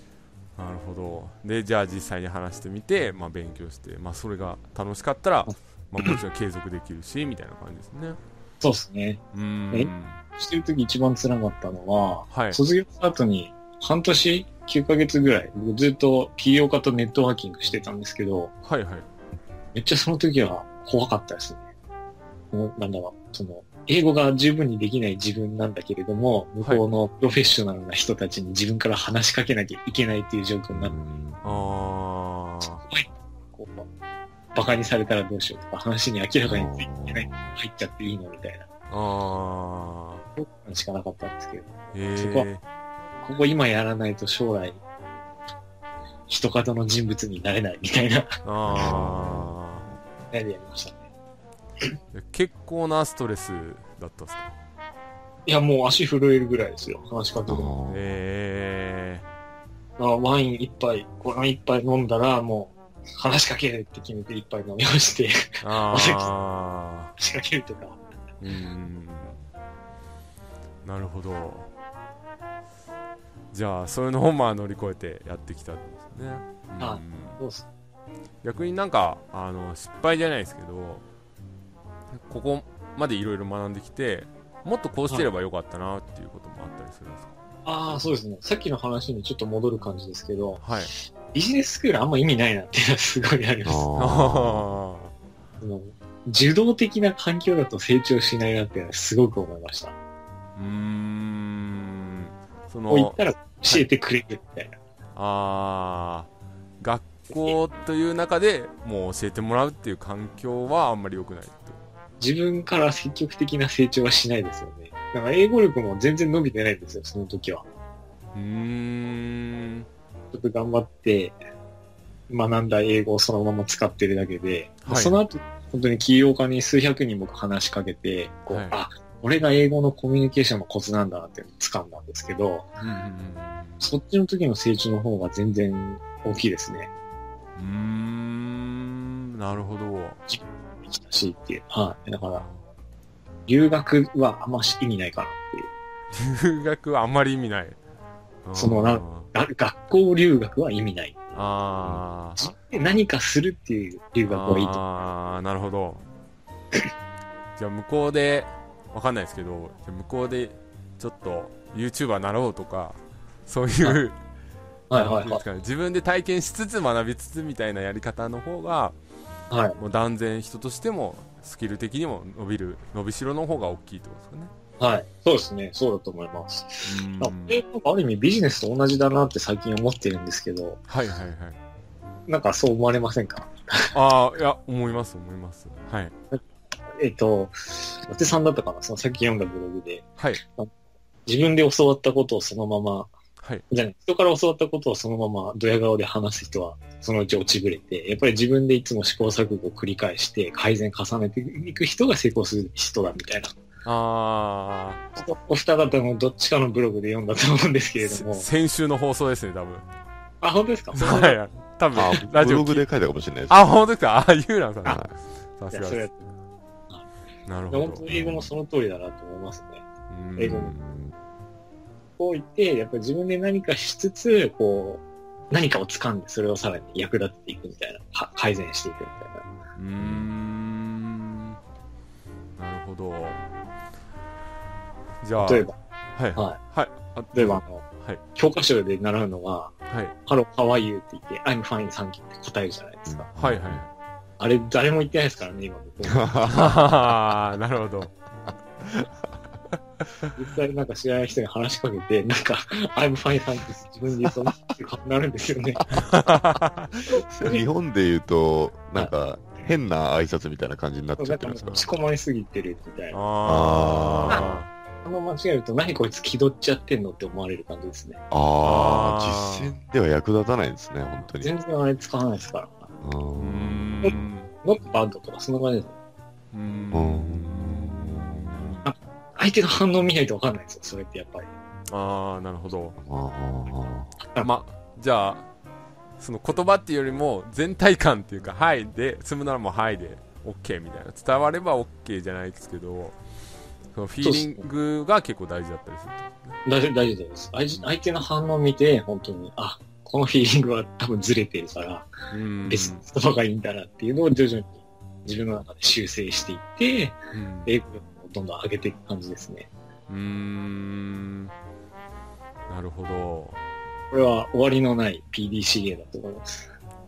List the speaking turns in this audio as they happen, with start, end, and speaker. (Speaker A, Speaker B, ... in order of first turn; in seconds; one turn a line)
Speaker A: 0.6-8.2
Speaker B: 5.5-6.2
Speaker B: 8.6-18.5
Speaker A: 9.3-10.2
Speaker A: 12.3-12.6
Speaker A: 18.6-19.1
Speaker B: 19.7-21.6
Speaker B: 22.5-30.9
Speaker C: 30.7-31.6
Speaker A: 31.4-32.8
Speaker B: 32.8-33.9
Speaker B: 34.5-38.7
Speaker C: 36.5-37.5
Speaker A: 38.9-40.2
Speaker B: 40.4-42.5
Speaker A: 41.9-42.6
Speaker B: 43.2-44.8
Speaker B: 46.3-48.4
Speaker A: 48.4-49.9
Speaker C: 48.7-49.5
Speaker B: 50.3-51.0
Speaker A: 52.1-54.5
Speaker B: 55.5-57.7
Speaker C: 57.5-58.2
Speaker A: 57.9-59.2
Speaker B: 60.0-66.3
Speaker A: 65.6-67.1
Speaker B: 67.2-68.0
Speaker A: 68.4-69.4
Speaker A: 70.8-71.7
Speaker A: 73.5-77.4
Speaker B: 76.8-77.7
Speaker A: 78.4-81.0
Speaker A: 82.1-87.3
Speaker B: 87.7-90.6
Speaker A: 90.6-90.9
Speaker B: 91.3-93.9
Speaker C: 93.7-94.6
Speaker A: 94.0-95.1
Speaker B: 95.6-100.0
Speaker A: 100.5-103.8
Speaker B: 102.9-104.8
Speaker A: 105.1-106.3
Speaker A: 106.8-111.8
Speaker B: 112.2-117.6
Speaker A: 118.3-119.9
Speaker B: 120.3-121.4
Speaker B: 122.3-132.7
Speaker A: 124.8-125.2
Speaker A: 128.5-128.7
Speaker A: 132.8-133.8
Speaker B: 133.8-136.9
Speaker A: 137.6-140.2
Speaker B: 140.3-142.4
Speaker A: 142.3-142.6
Speaker B: 143.5-145.7
Speaker A: 146.1-147.8
Speaker A: 148.4-149.3
Speaker B: 148.6-151.2
Speaker A: 151.3-152.5
Speaker B: 152.4-154.8
Speaker A: 154.3-156.1
Speaker A: 157.6-164.2
Speaker B: 164.9-165.4
Speaker A: 164.9-168.9
Speaker B: 169.5-169.8
Speaker A: 169.8-174.5
Speaker B: 174.8-180.8
Speaker A: 176.8-177.6
Speaker A: 180.9-181.6
Speaker B: 182.3-183.9
Speaker A: 183.9-186.1
Speaker B: 186.9-190.7
Speaker B: 191.3-193.1
Speaker B: 193.7-203.6
Speaker A: 203.8-205.0
Speaker B: 205.2-208.5
Speaker A: 208.0-209.9
Speaker B: 210.4-211.4
Speaker A: 210.9-212.9
Speaker C: 211.9-213.6
Speaker A: 213.5-216.1
Speaker C: 214.9-215.1
Speaker B: 215.7-216.2
Speaker A: 217.4-218.0
Speaker B: 217.7-219.8
Speaker C: 218.1-218.5
Speaker A: 220.1-220.8
Speaker B: 220.4-220.7
Speaker C: 220.8-221.1
Speaker B: 222.2-229.4
Speaker A: 229.8-231.6
Speaker C: 230.0-230.3
Speaker A: 232.6-233.4
Speaker A: 235.2-238.2
Speaker B: 235.4-235.7
Speaker B: 237.3-237.8
Speaker B: 238.3-239.7
Speaker B: 240.3-243.3
Speaker C: 243.1-243.8
Speaker A: 243.4-243.9
Speaker B: 244.4-246.5
Speaker C: 246.1-246.7
Speaker A: 246.5-248.1
Speaker B: 250.4-255.9
Speaker A: 255.9-257.0
Speaker C: 257.3-261.9
Speaker B: 261.2-263.2
Speaker A: 263.1-264.7
Speaker C: 263.4-264.6
Speaker B: 265.0-268.2
Speaker C: 268.3-271.5
Speaker A: 268.6-269.7
Speaker B: 271.4-272.9
Speaker C: 273.0-274.2
Speaker A: 273.4-274.5
Speaker B: 274.6-275.9
Speaker A: 276.5-278.9
Speaker C: 276.9-278.8
Speaker B: 278.8-281.5
Speaker A: 281.9-283.0
Speaker C: 283.0-284.1
Speaker A: 284.4-285.4
Speaker A: 286.2-293.2
Speaker A: 293.9-296.6
Speaker B: 294.2-294.6
Speaker B: 296.6-302.1
Speaker A: 302.3-303.1
Speaker B: 302.7-309.7
Speaker A: 307.3-307.7
Speaker A: 310.1-311.5
Speaker A: 312.7-313.6
Speaker B: 314.1-316.6